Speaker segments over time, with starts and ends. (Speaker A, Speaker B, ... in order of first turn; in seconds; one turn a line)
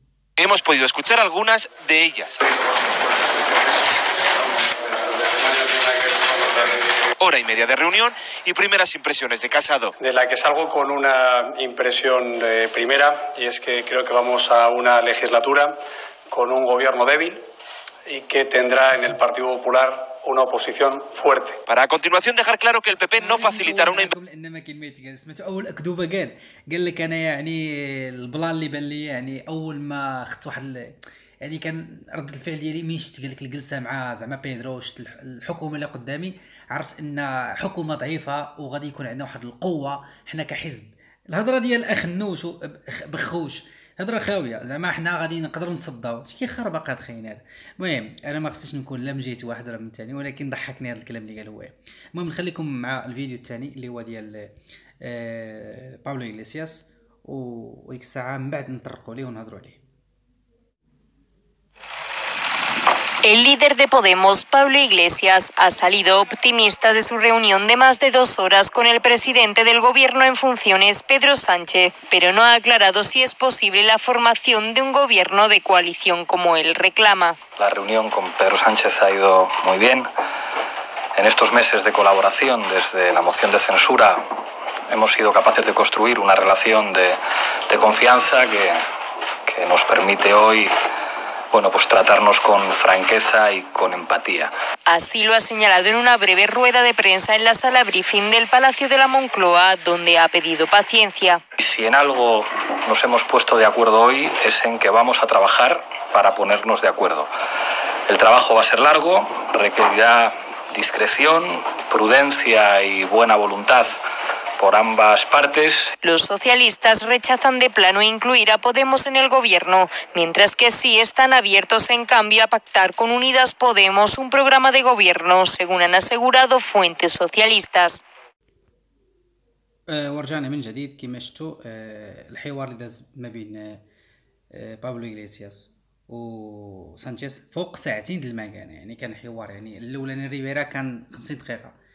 Speaker A: 0.4-2.5
Speaker B: 5.1-6.5
Speaker A: 6.5-9.9
Speaker B: 10.0-15.7
Speaker B: 16.3-17.4
Speaker B: 18.1-21.6
Speaker A: 21.6-24.1
Speaker C: 23.2-54.5
Speaker C: 55.0-59.8
Speaker D: 63.2-77.4
Speaker E: 77.6-80.1
Speaker E: 81.2-84.2
Speaker E: 84.9-88.8
Speaker E: 89.5-90.7
Speaker E: 91.5-94.5
Speaker D: 94.8-101.4
Speaker E: 101.6-107.3
Speaker E: 108.1-114.0
Speaker E: 114.6-115.9
Speaker D: 116.0-128.0
Speaker C: 129.9-133.8
Speaker C: 134.5-141.7